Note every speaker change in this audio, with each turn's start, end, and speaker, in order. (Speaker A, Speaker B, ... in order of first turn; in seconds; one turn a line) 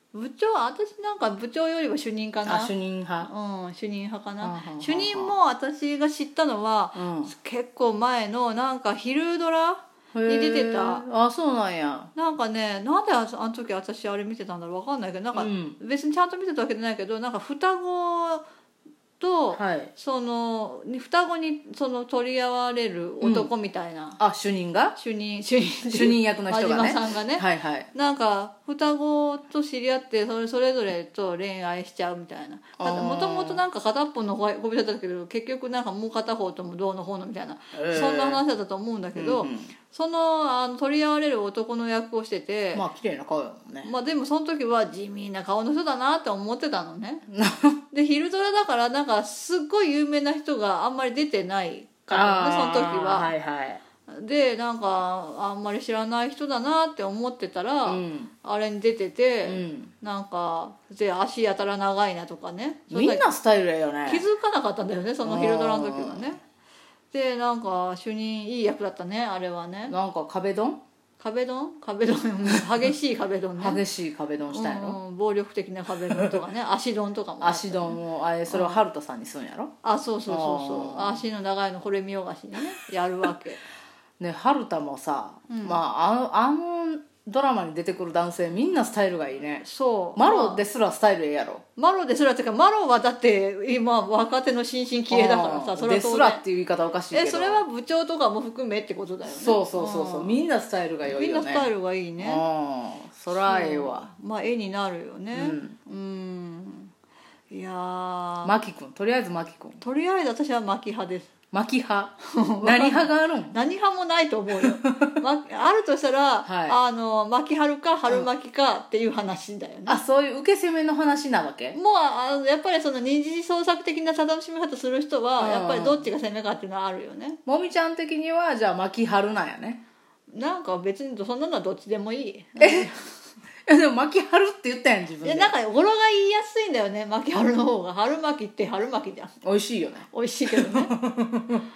Speaker A: 0.1-11.0
Speaker B: 2.4-3.3
Speaker B: 4.4-5.3
Speaker B: 6.9-7.3
Speaker B: 10.1-12.1
Speaker A: 12.2-18.4
Speaker B: 15.3-15.8
Speaker A: 19.2-24.2
Speaker B: 19.5-19.9
Speaker B: 23.2-23.5
Speaker B: 24.2-25.0
Speaker A: 24.9-42.8
Speaker B: 25.9-27.9
Speaker B: 32.8-33.6
Speaker B: 37.7-38.4
Speaker B: 39.1-39.7
Speaker B: 42.7-43.9
Speaker A: 43.8-47.2
Speaker B: 47.3-47.8
Speaker A: 47.9-53.3
Speaker B: 52.1-53.8
Speaker A: 54.1-63.2
Speaker B: 57.9-58.3
Speaker B: 59.4-59.9
Speaker B: 62.9-64.2
Speaker A: 64.1-66.4
Speaker B: 65.2-66.3
Speaker A: 67.1-69.9
Speaker B: 69.9-70.8
Speaker A: 71.2-73.8
Speaker B: 73.6-75.0
Speaker A: 74.5-78.8
Speaker B: 77.4-79.7
Speaker A: 79.8-83.6
Speaker B: 80.3-81.2
Speaker B: 84.2-89.6
Speaker A: 85.5-85.8
Speaker A: 89.6-90.6
Speaker B: 90.2-91.6
Speaker A: 91.8-96.4
Speaker B: 95.1-97.6
Speaker A: 97.1-100.4
Speaker B: 99.3-104.1
Speaker A: 101.1-102.4
Speaker A: 103.3-106.9
Speaker B: 105.3-105.8
Speaker A: 107.5-108.5
Speaker B: 108.4-109.8
Speaker A: 109.8-111.3
Speaker B: 111.5-113.6
Speaker A: 112.3-120.0
Speaker B: 114.7-115.2
Speaker B: 116.4-116.8
Speaker B: 119.9-121.8
Speaker A: 121.7-127.4
Speaker B: 125.4-126.0
Speaker B: 127.5-129.8
Speaker A: 130.3-133.1
Speaker B: 132.6-132.9
Speaker B: 133.7-135.5
Speaker A: 135.2-139.4
Speaker B: 139.4-141.6
Speaker A: 140.1-140.9